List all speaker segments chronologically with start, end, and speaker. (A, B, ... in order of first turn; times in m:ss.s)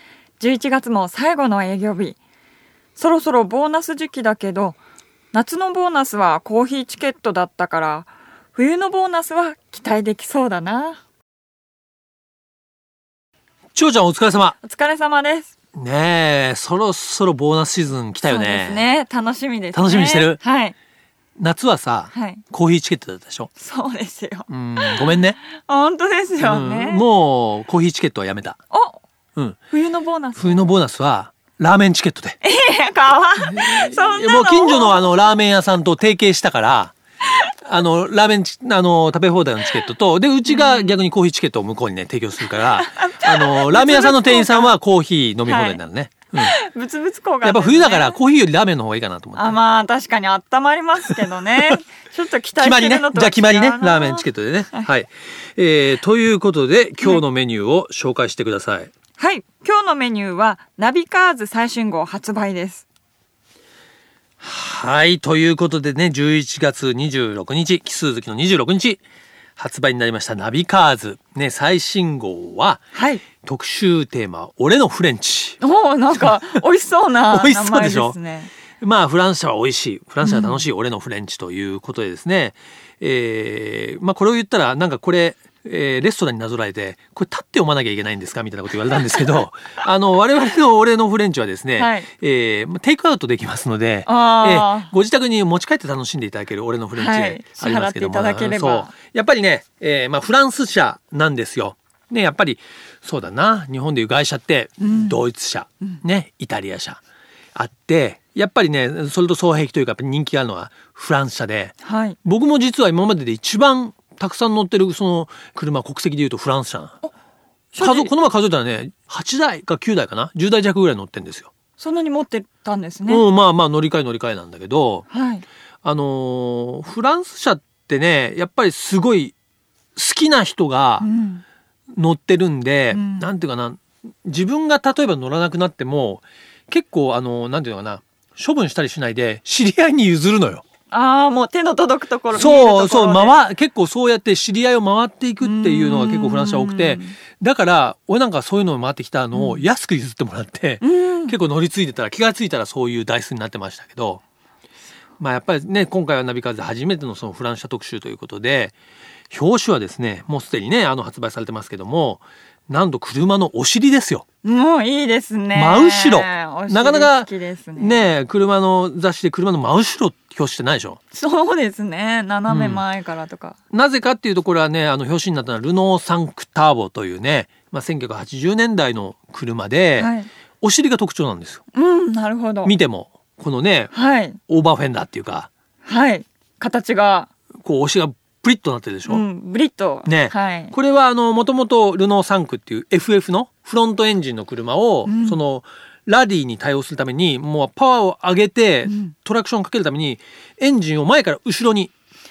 0:00.4-0:02.2 A
0:03.0-0:04.8 A
0:05.3-0:11.0 A
0:13.7-0:14.6 B
0:14.6-0:15.5 A
0:15.7-0:18.8 B
0:18.2-0:20.7 A
0:19.7-0:20.4 B
0:21.4-0:23.5 B
0:22.1-0:22.4 A
0:23.6-0:27.0 A
0:24.5-0:25.4 B
0:26.4-0:28.6 B
0:28.7-0:29.0 A
0:29.7-0:30.6 A
0:30.4-0:32.4 B
0:32.4-0:35.0 A
0:33.4-0:36.9 B
0:37.6-0:46.5 B
0:40.4-0:41.0 A
0:42.6-0:44.7 A
0:45.4-0:45.8 A
0:46.4-0:48.2 A
0:47.4-0:49.6 B
0:49.4-0:54.9 A
0:52.6-0:58.9 B
0:59.2-1:02.8 A
1:04.4-1:09.0 B
1:09.6-1:15.6 B
1:12.9-1:13.2 A
1:15.6-1:18.5 A
1:17.3-1:18.2 B
1:18.8-1:47.0 B
1:20.2-1:20.6 A
1:31.8-1:32.1 A
1:34.0-1:34.9 A
1:37.0-1:38.9 A
1:44.8-1:45.2 A
1:47.5-1:57.0 B
1:51.8-1:52.2 A
1:57.7-1:58.1 A
1:57.7-2:01.5 B
2:01.8-2:03.2 A
2:03.1-2:05.0 B
2:05.1-2:05.4 A
2:05.8-2:09.3 B
2:10.0-2:11.1 B
2:11.0-2:11.4 A
2:11.9-2:20.6 B
2:12.9-2:13.3 A
2:20.9-2:23.4 A
2:22.3-2:34.2 B
2:25.4-2:27.2 A
2:29.3-2:29.6 A
2:30.8-2:31.4 A
2:35.2-2:38.8 B
2:39.3-2:44.2 B
2:44.4-2:48.0 A
2:45.5-2:51.0 B
2:51.1-2:53.6 A
2:52.5-2:52.8 B
2:53.7-3:01.6 B
3:00.0-3:00.3 A
3:01.7-3:02.7 A
3:02.6-3:03.9 B
3:03.9-3:04.4 A
3:04.5-3:05.5 B
3:05.8-3:07.3 A
3:07.6-3:09.2 B
3:09.1-3:10.7 A
3:10.0-3:21.9 B
3:15.0-3:15.4 A
3:18.8-3:19.1 A